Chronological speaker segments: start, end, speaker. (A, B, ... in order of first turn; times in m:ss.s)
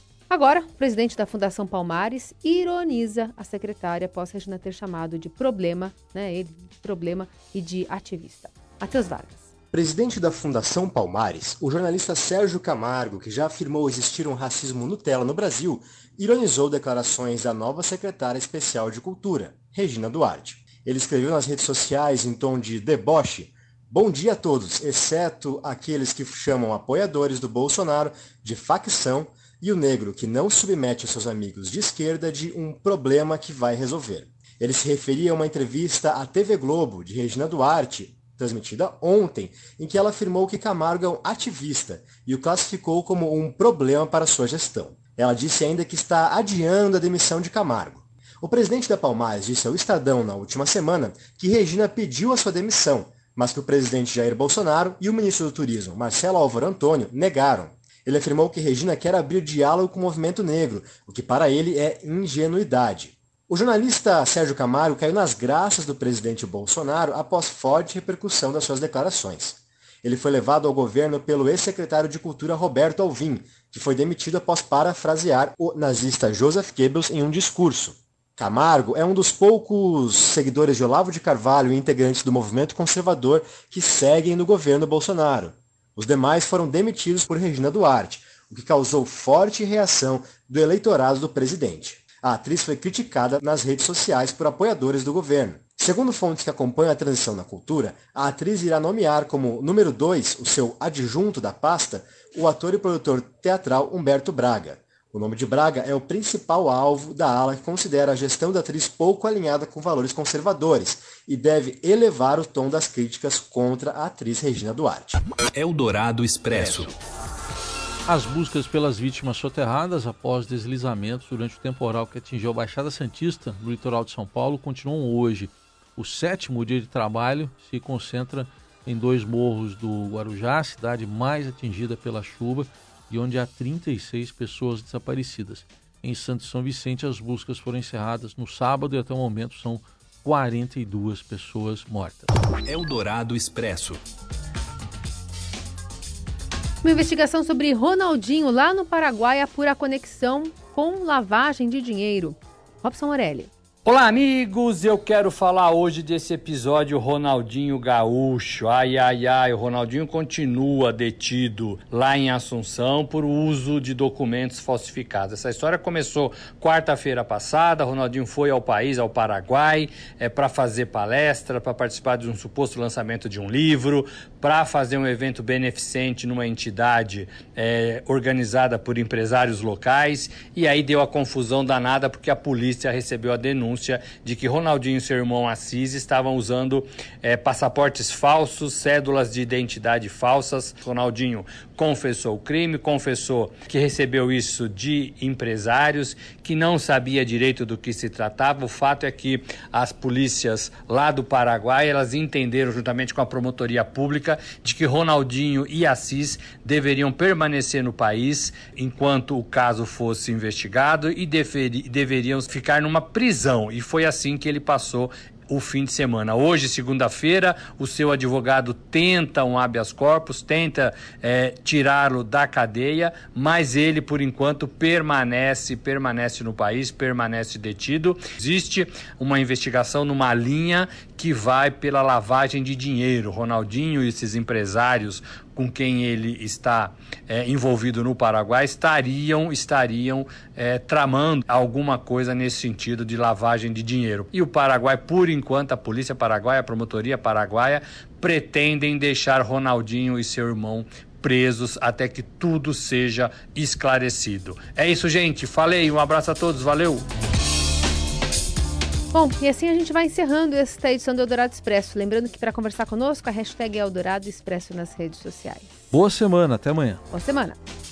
0:00.3-0:09.5 A
0:09.7-1:55.2 B
1:55.5-1:57.0 C
1:58.1-2:22.3 D
2:22.6-2:24.0 C
2:26.8-2:33.5 A
2:33.8-4:17.1 E
4:19.1-4:26.0 A
4:25.9-4:27.0 D
4:27.1-4:27.6 A